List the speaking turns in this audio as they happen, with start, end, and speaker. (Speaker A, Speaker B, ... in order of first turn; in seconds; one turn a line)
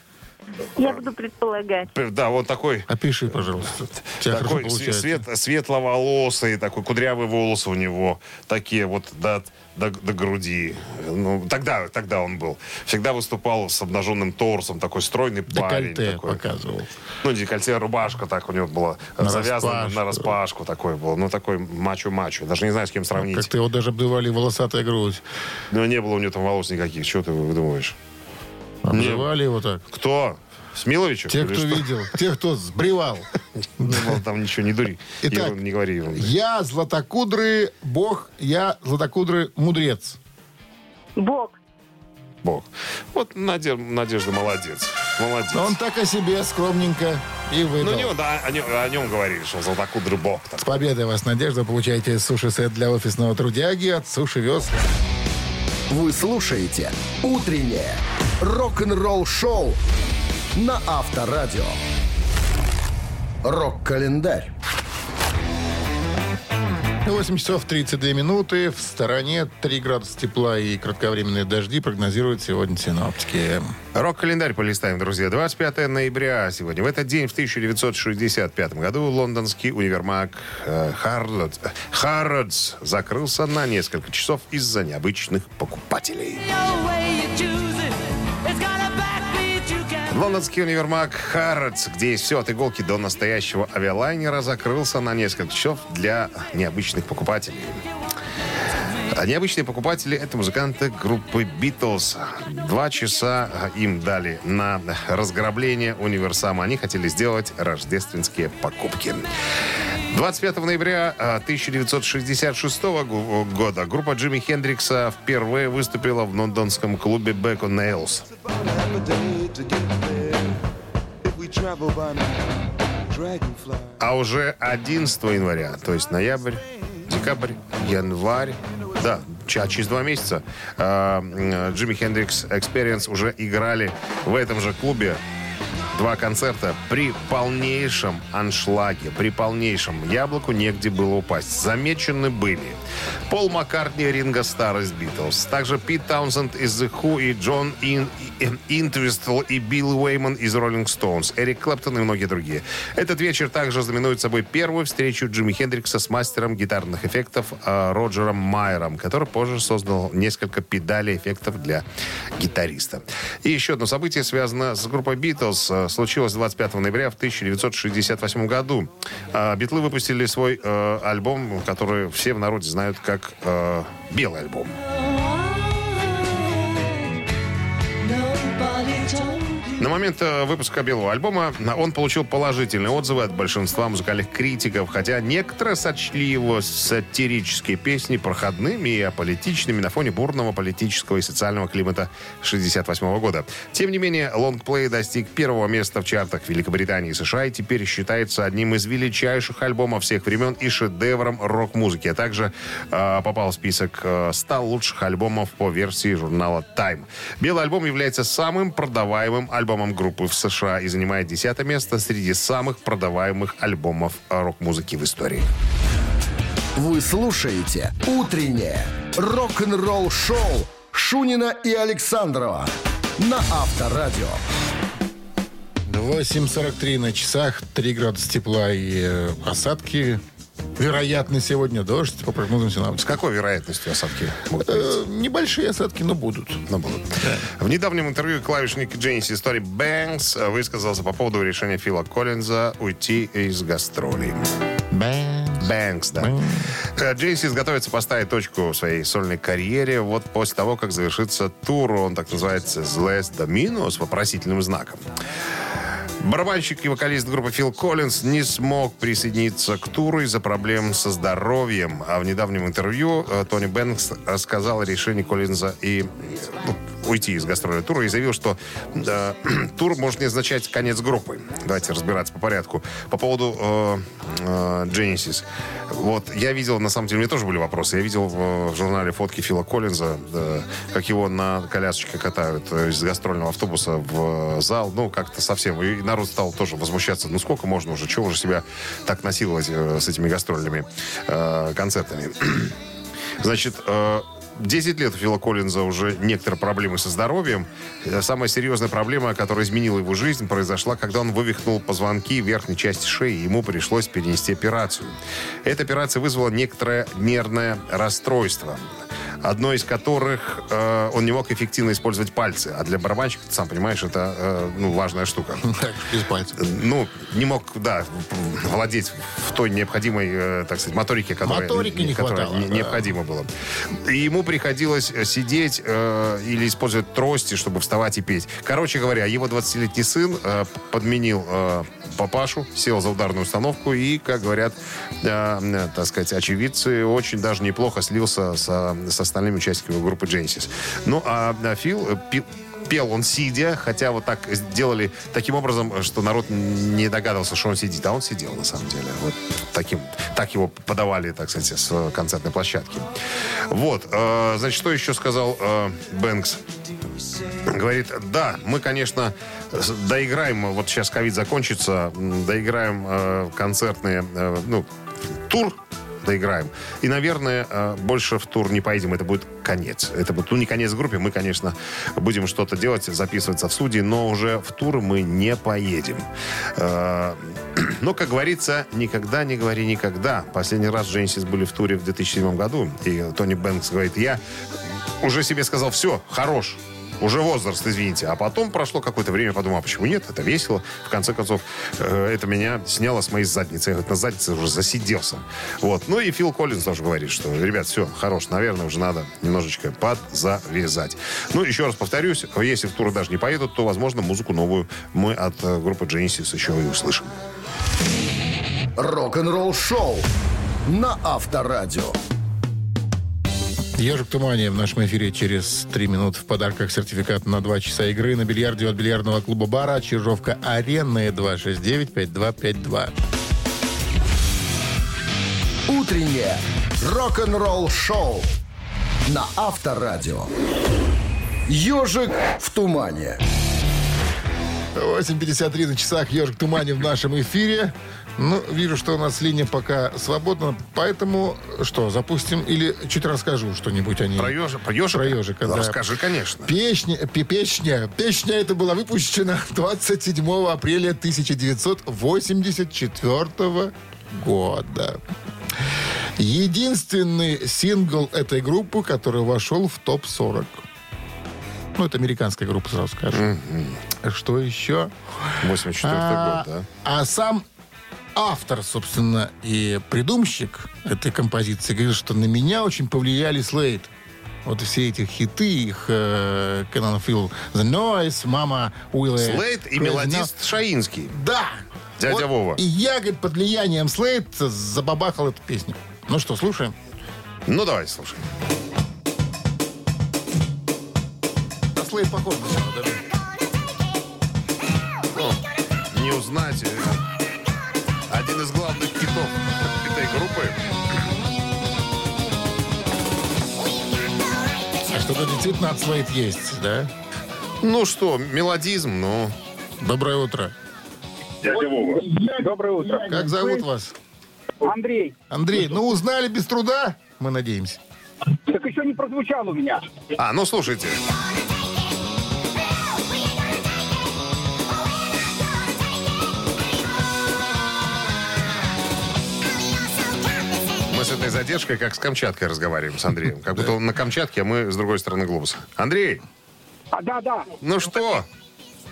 Speaker A: 0.8-1.9
Speaker B: 0.8-1.1
Speaker B: 1.9-2.9
Speaker C: 2.9-5.2
Speaker B: 4.2-16.4
Speaker C: 15.5-16.9
Speaker B: 17.2-23.5
Speaker C: 19.2-20.3
Speaker C: 23.1-25.2
Speaker B: 25.7-28.0
Speaker C: 28.8-29.8
Speaker B: 28.9-29.3
Speaker B: 29.9-32.0
Speaker C: 31.3-33.3
Speaker B: 33.8-36.3
Speaker C: 33.8-34.2
Speaker C: 35.2-35.5
Speaker C: 36.1-40.2
Speaker A: 41.1-41.6
Speaker B: 42.4-45.8
Speaker C: 45.5-48.1
Speaker B: 47.8-50.8
Speaker C: 50.6-54.9
Speaker D: 55.9-59.8
Speaker D: 60.5-61.8
Speaker D: 63.4-64.5
Speaker C: 67.0-73.7
Speaker B: 74.0-86.5
Speaker A: 87.2-87.5
Speaker B: 90.0-97.8
Speaker B: 99.1-109.3
Speaker B: 110.1-118.3
Speaker B: 124.0-135.2
Speaker B: 135.9-161.8
Speaker B: 162.4-174.8
Speaker A: 175.0-176.9
Speaker A: 178.0-179.9
Speaker B: 179.8-215.5
Speaker D: 216.8-224.4
Speaker C: 225.9-230.2
Speaker C: 230.8-233.2
Speaker B: 233.1-234.9
Speaker C: 234.6-236.6
Speaker B: 236.7-244.4
Speaker C: 237.2-237.5
Speaker C: 244.9-246.7
Speaker B: 245.6-255.0
Speaker B: 256.2-292.8
Speaker B: 293.4-308.8
Speaker B: 309.4-315.6
Speaker C: 315.6-316.6
Speaker B: 316.6-353.1
Speaker C: 321.4-323.1
Speaker B: 353.7-356.6
Speaker B: 357.6-364.9
Speaker B: 365.4-384.4
Speaker B: 385.2-407.3
Speaker D: 409.0-410.3
Speaker D: 410.9-412.2
Speaker C: 414.0-423.1
Speaker D: 425.9-428.5
Speaker D: 429.3-430.5
Speaker D: 431.7-433.4
Speaker C: 434.9-444.6
Speaker B: 444.4-446.7
Speaker C: 445.1-446.0
Speaker C: 446.6-455.2
Speaker C: 456.4-460.8
Speaker C: 462.0-463.5
Speaker B: 463.3-464.0
Speaker C: 464.2-467.6
Speaker B: 465.6-466.9
Speaker C: 468.4-474.1
Speaker C: 474.6-480.5
Speaker B: 479.4-481.4
Speaker C: 481.3-486.9
Speaker B: 482.2-482.8
Speaker B: 487.7-488.4
Speaker C: 491.9-493.2
Speaker B: 496.1-497.2
Speaker B: 498.3-500.8
Speaker C: 505.1-507.1
Speaker B: 507.8-509.6
Speaker C: 510.0-510.8
Speaker E: 511.6-513.8
Speaker C: 513.1-514.2
Speaker E: 514.8-515.4
Speaker C: 515.5-518.0
Speaker E: 518.6-520.0
Speaker B: 520.4-521.2
Speaker B: 531.1-536.4
Speaker E: 537.1-537.7
Speaker B: 537.8-538.5